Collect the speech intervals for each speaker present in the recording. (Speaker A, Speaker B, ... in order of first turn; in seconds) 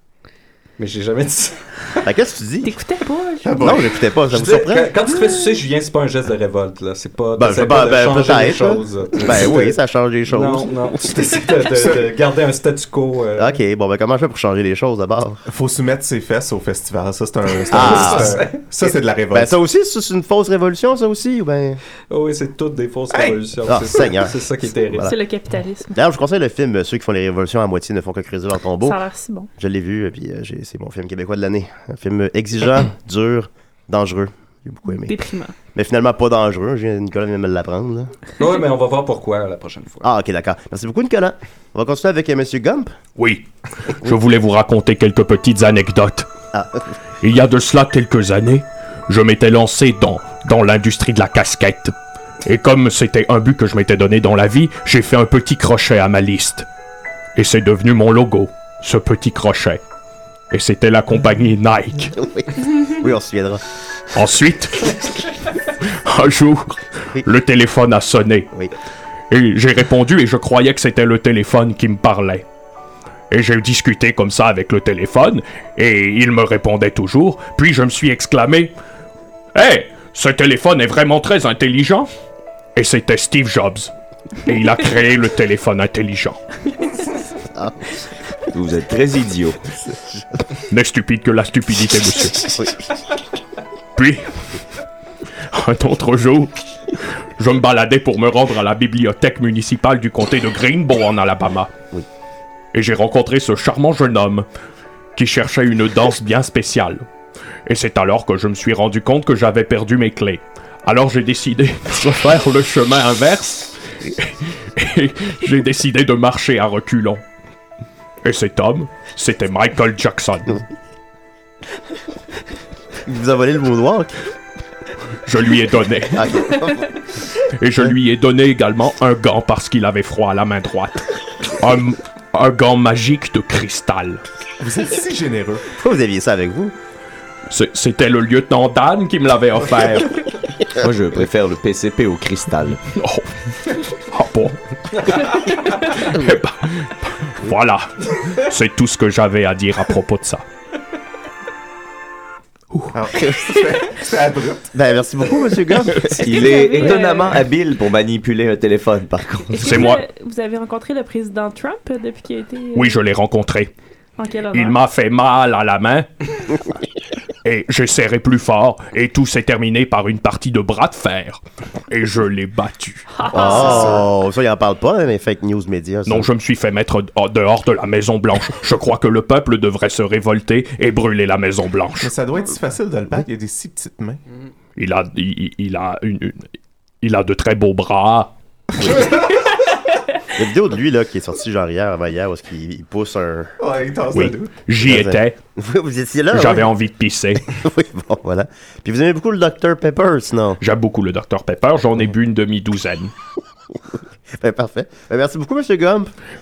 Speaker A: 0.8-2.0, 4.3-13.6, 17.7-18.6, 22.1-25.1, 38.4-40.1
Speaker B: 2.0-2.8, 3.6-5.0, 7.4-11.3, 13.4-15.4, 17.7-18.4, 19.3-21.8, 23.6-25.1, 25.9-29.0, 29.6-35.1, 35.7-38.1, 40.0-42.9, 46.5-46.8, 62.2-63.6, 123.0-124.1, 126.1-126.9, 135.8-136.7, 154.7-156.3, 173.3-176.3, 190.3-193.5, 194.8-196.7, 197.6-200.6, 204.4-206.1
Speaker C: 2.6-3.8, 5.2-5.6, 25.0-26.0, 28.8-29.5, 34.9-35.5, 156.3-157.4, 159.5-163.0, 164.2-164.8, 173.1-174.1
Speaker D: 3.4-4.0, 11.7-12.0, 15.5-19.6, 23.1-23.4, 134.6-135.6, 152.9-154.8, 182.0-184.2, 193.6-194.5
Speaker E: 43.2-46.3, 47.2-51.9, 52.4-56.6, 57.4-59.8, 60.5-62.1, 64.1-64.9, 65.9-68.5, 69.3-72.4, 73.3-78.7, 79.5-82.1, 82.8-83.9, 84.5-86.4, 90.7-92.5, 94.0-94.2, 95.5-101.7, 102.7-104.4, 105.2-107.0, 107.7-117.2, 118.2-120.6, 125.2-126.2, 127.6-134.2, 137.5-140.2, 142.9-150.4, 159.6-160.0, 162.7-163.7, 164.5-166.1, 167.4-173.8, 176.1-182.1, 184.8-186.5, 187.0-188.3, 194.1-195.4, 196.3-197.4, 200.6-203.1
Speaker F: 88.5-89.6, 140.8-142.8, 156.2-159.7